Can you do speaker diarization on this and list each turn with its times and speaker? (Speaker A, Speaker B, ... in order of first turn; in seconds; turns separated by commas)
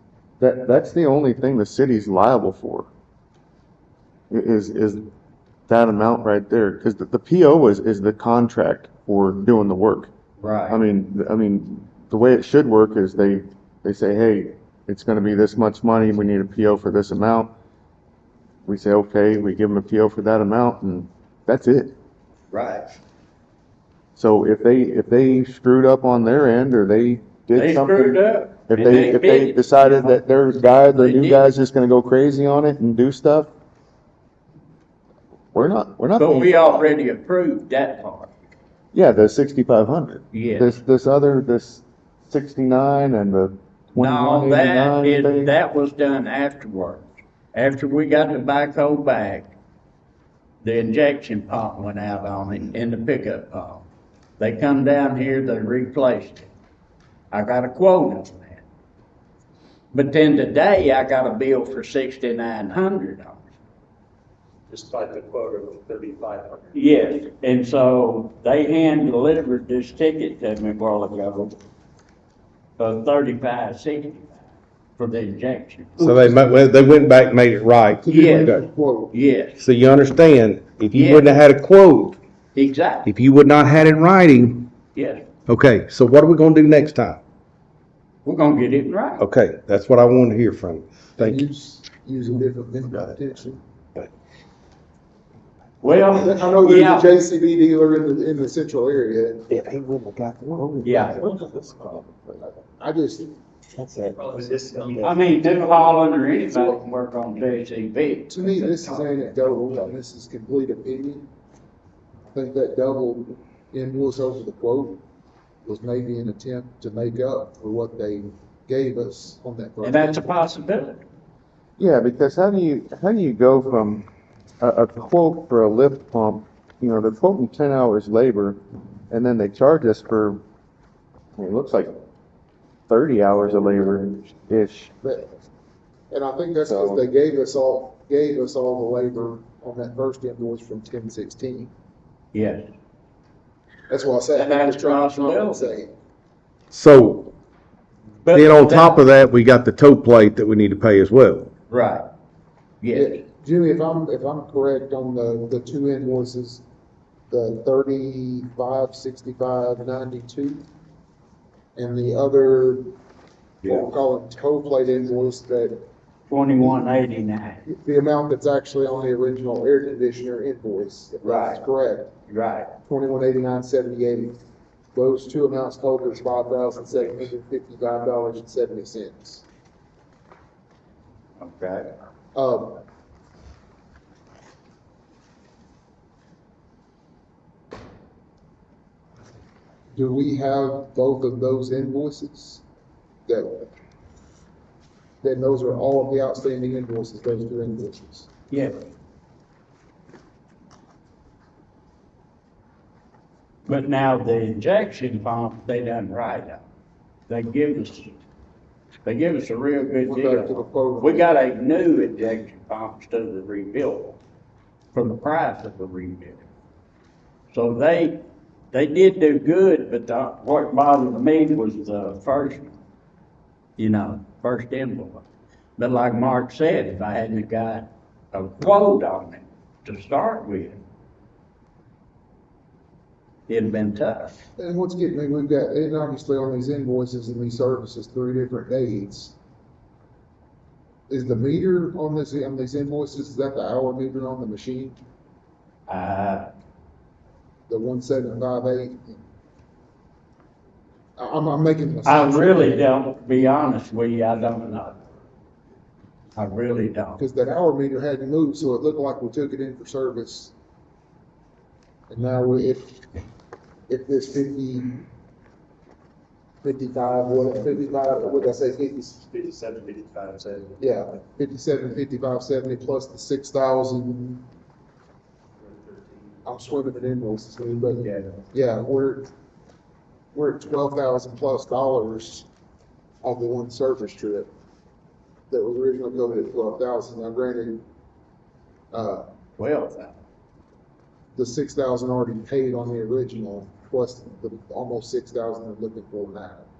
Speaker A: 0.4-2.9, Speaker A: 4.3-5.1, Speaker A: 5.7-10.1, Speaker B: 10.4-10.8, Speaker A: 10.7-17.5, Speaker A: 18.6-21.9, Speaker B: 22.5-22.9, Speaker A: 24.1-33.5, Speaker B: 27.5-31.5, Speaker A: 35.5-36.9, Speaker B: 36.2-38.3, Speaker A: 38.9-45.5, Speaker B: 40.3-40.7, Speaker B: 43.9-49.5, Speaker B: 50.6-53.9, Speaker B: 54.4-56.5, Speaker B: 57.3-58.6, Speaker B: 59.9-63.5, Speaker C: 64.7-66.7, Speaker B: 66.7-71.6, Speaker B: 72.8-74.4, Speaker B: 75.0-76.1, Speaker D: 76.0-78.7, Speaker E: 76.0-76.4, Speaker E: 78.0-79.1, Speaker B: 78.1-78.5, Speaker B: 79.1-79.6, Speaker D: 79.6-82.2, Speaker B: 80.9-81.4, Speaker B: 82.5-83.1, Speaker D: 83.0-84.7, Speaker B: 84.9-85.2, Speaker D: 85.5-87.2, Speaker B: 88.2-89.2, Speaker D: 89.2-91.4, Speaker E: 91.2-93.6, Speaker B: 95.8-97.1, Speaker E: 96.1-99.6, Speaker A: 100.2-102.4, Speaker B: 100.8-101.2, Speaker E: 102.7-103.4, Speaker A: 103.8-104.3, Speaker B: 105.0-109.0, Speaker E: 108.3-111.3, Speaker E: 112.3-115.0, Speaker E: 115.6-120.3, Speaker B: 119.8-121.0, Speaker A: 121.8-124.0, Speaker A: 124.6-130.4, Speaker A: 131.4-132.0, Speaker A: 132.9-134.9, Speaker E: 135.0-135.4, Speaker E: 136.1-141.7, Speaker A: 136.6-137.0, Speaker B: 142.3-142.7, Speaker E: 143.9-145.9, Speaker B: 144.3-145.7, Speaker D: 146.7-147.3, Speaker B: 148.2-149.0, Speaker D: 148.3-151.5, Speaker B: 151.7-152.1, Speaker B: 152.8-153.2, Speaker E: 152.9-156.6, Speaker E: 157.3-160.6, Speaker E: 161.7-162.9, Speaker E: 163.6-165.8, Speaker B: 166.3-167.6, Speaker E: 166.6-166.9, Speaker E: 167.7-172.1, Speaker B: 171.2-171.6, Speaker B: 172.3-172.7, Speaker E: 172.8-174.4, Speaker E: 174.9-179.4, Speaker B: 181.4-181.9, Speaker E: 182.3-182.8, Speaker E: 189.9-192.6, Speaker E: 193.2-193.7, Speaker E: 195.2-198.3, Speaker B: 198.5-198.8, Speaker B: 203.7-206.6, Speaker B: 207.3-208.2, Speaker B: 209.0-214.2, Speaker E: 210.0-211.3, Speaker B: 214.9-216.5, Speaker B: 217.5-218.2, Speaker B: 218.7-222.8, Speaker B: 223.8-225.2, Speaker B: 225.8-230.8, Speaker B: 233.5-234.4, Speaker E: 234.6-239.3, Speaker E: 241.1-245.0, Speaker B: 245.9-246.5, Speaker E: 247.7-249.2, Speaker E: 251.2-252.9, Speaker B: 252.0-255.0, Speaker B: 256.3-257.2, Speaker E: 257.2-260.5, Speaker E: 262.1-263.1, Speaker E: 263.9-264.9, Speaker E: 266.6-269.1, Speaker C: 269.3-270.6, Speaker E: 270.8-274.4, Speaker E: 276.4-279.3, Speaker E: 280.3-282.5, Speaker E: 283.2-284.5, Speaker E: 285.5-287.8, Speaker E: 288.9-289.2, Speaker B: 289.6-290.2, Speaker E: 291.3-296.6